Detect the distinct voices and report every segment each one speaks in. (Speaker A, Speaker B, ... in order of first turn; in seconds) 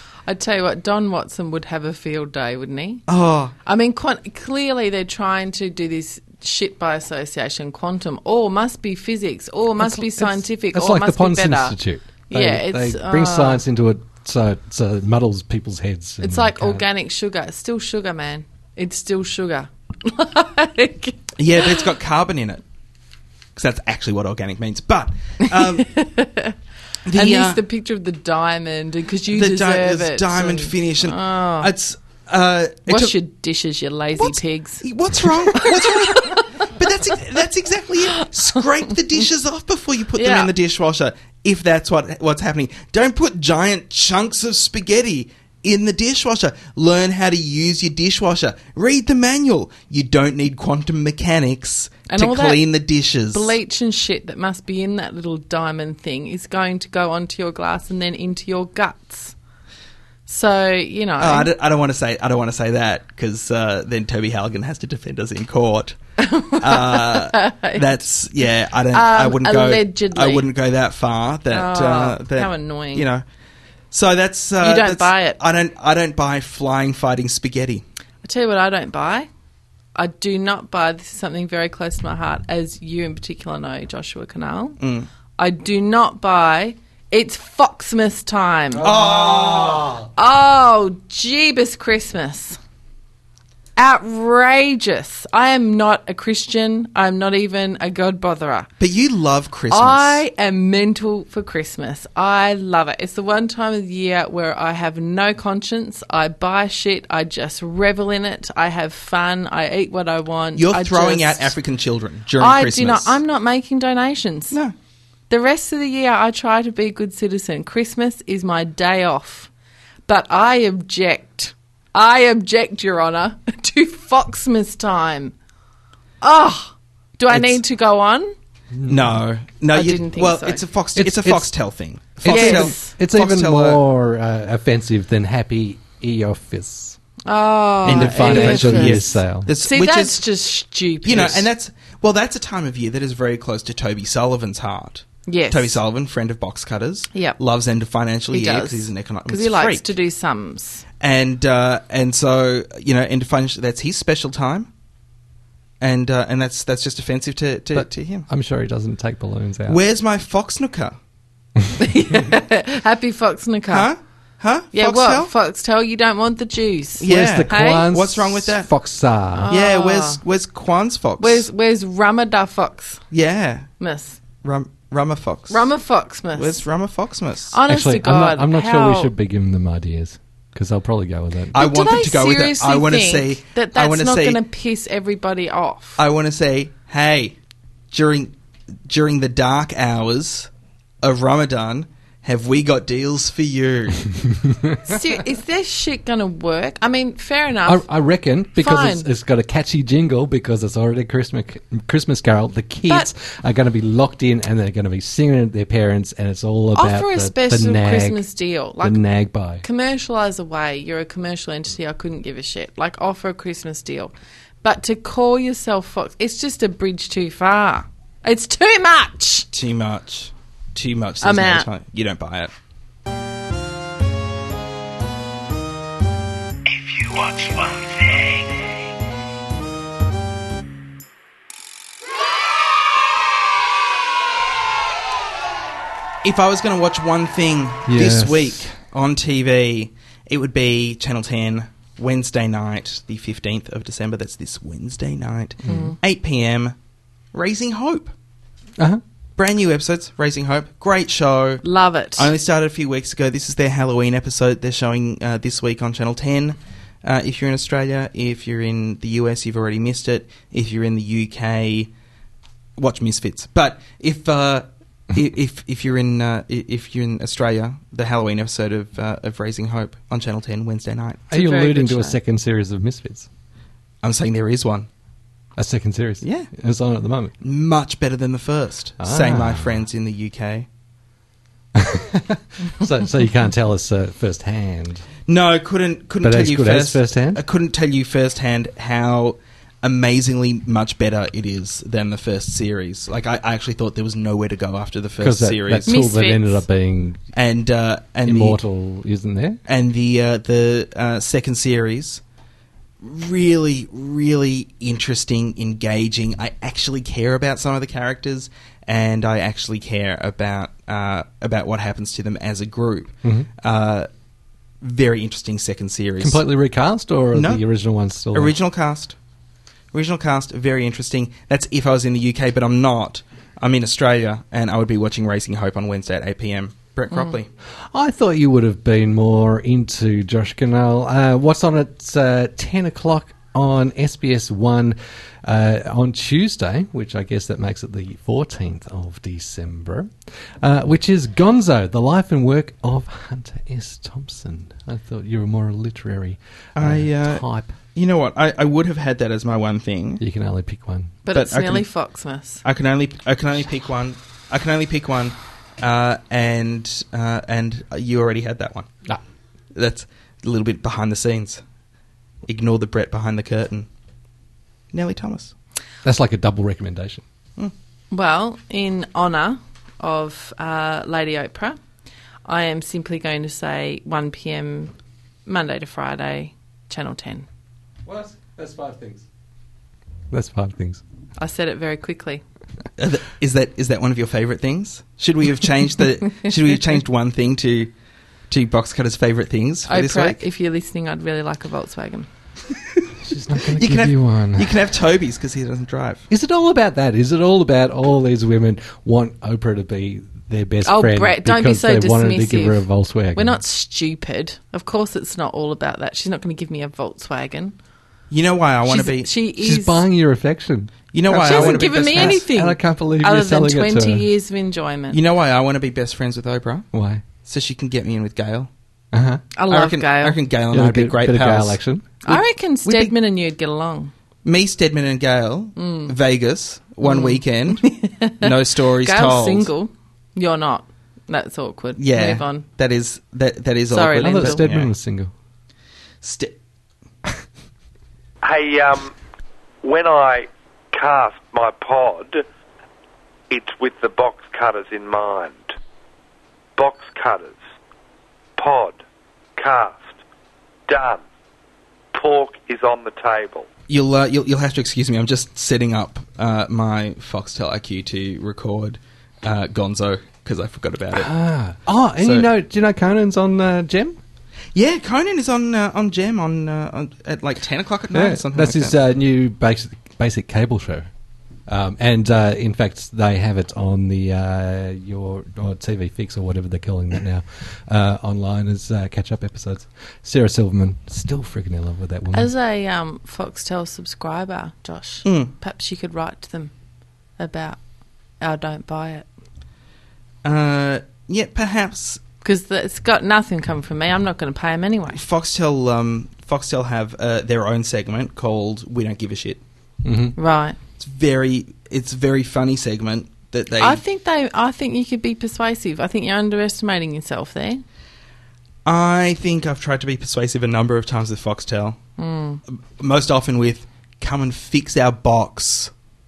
Speaker A: 0.3-3.0, 3.6-11.8, 12.3-13.6, 16.2-21.9, 25.4-26.6, 27.1-31.7, 32.9-36.6, 38.1-38.6, 40.1-40.5, 52.1-52.6, 53.3-59.3, 60.3-61.5, 66.2-68.0, 68.9-70.5, 71.5-73.1, 74.6-75.4, 78.2-79.3, 79.9-84.8, 85.4-88.9, 90.2-92.6, 93.8-98.7, 99.7-111.5, 112.4-114.6, 115.3-119.5, 120.1-125.3, 126.2-128.3, 129.7-130.6, 132.2-132.9, 137.3-141.5, 145.3-145.8, 148.3-150.8, 161.8-163.9, 164.7-167.9, 169.4-170.2, 171.2-173.0, 173.8-174.2, 175.5-176.6, 177.5-179.1, 181.5-186.0, 194.8-197.9, 198.5-199.1, 206.7-209.0, 209.6-219.5, 221.2-221.7, 245.7-246.0, 251.6-252.3, 271.3-272.2, 295.9-296.6, 351.2-352.6, 368.1-371.8, 372.4-374.9, 375.4-377.4, 381.4-382.4, 389.9-392.3, 400.8-407.7, 408.9-410.0, 411.3-415.2, 419.5-420.4, 422.2-424.1, 425.8-426.1, 427.0-428.5, 429.0-432.6, 433.9-434.6, 482.3-486.7, 487.4-487.8, 488.4-489.3, 492.4-495.2, 500.4-500.8, 503.8-507.8, 512.2-512.6
Speaker B: 3.1-3.5, 21.4-22.6, 23.6-25.9, 27.1-27.6, 29.3-33.1, 34.2-53.5, 61.2-66.0, 66.5-73.2, 73.9-77.8, 84.8-85.1, 88.8-90.0, 98.8-100.2, 110.5-113.2, 128.9-133.8, 137.8-140.2, 141.0-149.9, 151.0-154.7, 155.8-158.3, 159.7-160.9, 163.7-165.3, 167.0-168.7, 169.5-171.4, 173.1-173.7, 174.4-175.7, 176.3-177.6, 181.5-184.4, 186.0-187.4, 187.9-188.3, 188.9-190.5, 191.0-194.2, 219.5-222.5, 236.2-246.7, 247.3-248.1, 249.4-251.6, 252.2-261.9, 262.8-271.2, 274.0-274.9, 276.2-276.5, 277.4-280.6, 285.3-295.9, 297.3-298.6, 299.6-302.2, 303.0-314.1, 314.8-316.5, 317.3-317.6, 318.3-319.1, 319.9-327.5, 346.7-350.2, 351.3-351.9, 352.6-359.0, 359.7-361.6, 362.5-363.9, 364.9-365.5, 383.0-387.9, 388.5-390.4, 393.7-396.2, 408.3-409.3, 411.1-412.4, 415.1-416.9, 417.4-418.7, 419.7-423.1, 424.4-427.9, 428.4-429.7, 432.0-434.9, 436.2-436.6, 453.9-461.3, 462.2-462.5, 464.7-468.9, 485.2-485.5, 490.4-492.2, 495.1-499.6, 501.0-504.0, 508.8-512.0, 513.0-515.9
Speaker C: 9.8-16.9, 88.7-90.0, 128.7-129.2, 130.9-131.5, 132.2-137.0, 137.8-139.5, 157.7-159.8, 167.1-169.5, 177.7-181.6, 197.7-208.2, 208.8-209.6, 237.8-238.6, 245.7-245.9, 271.3-273.3, 275.6-277.3, 279.0-279.8, 281.7-285.1, 286.2-287.4, 295.2-297.2, 298.2-299.6, 316.2-318.6, 327.9-347.8, 350.2-351.1, 366.0-367.2, 378.1-379.2, 380.3-381.0, 393.2-394.8, 396.3-403.6, 409.6-414.2, 416.9-417.2, 419.1-419.4, 420.7-422.1, 434.2-435.3, 461.1-464.2, 468.1-471.1, 471.7-482.5, 500.0-500.4
Speaker D: 438.4-439.1, 439.8-442.4, 443.5-445.7, 446.8-447.6, 448.6-449.0, 449.6-450.2, 450.9-451.2, 452.1-453.7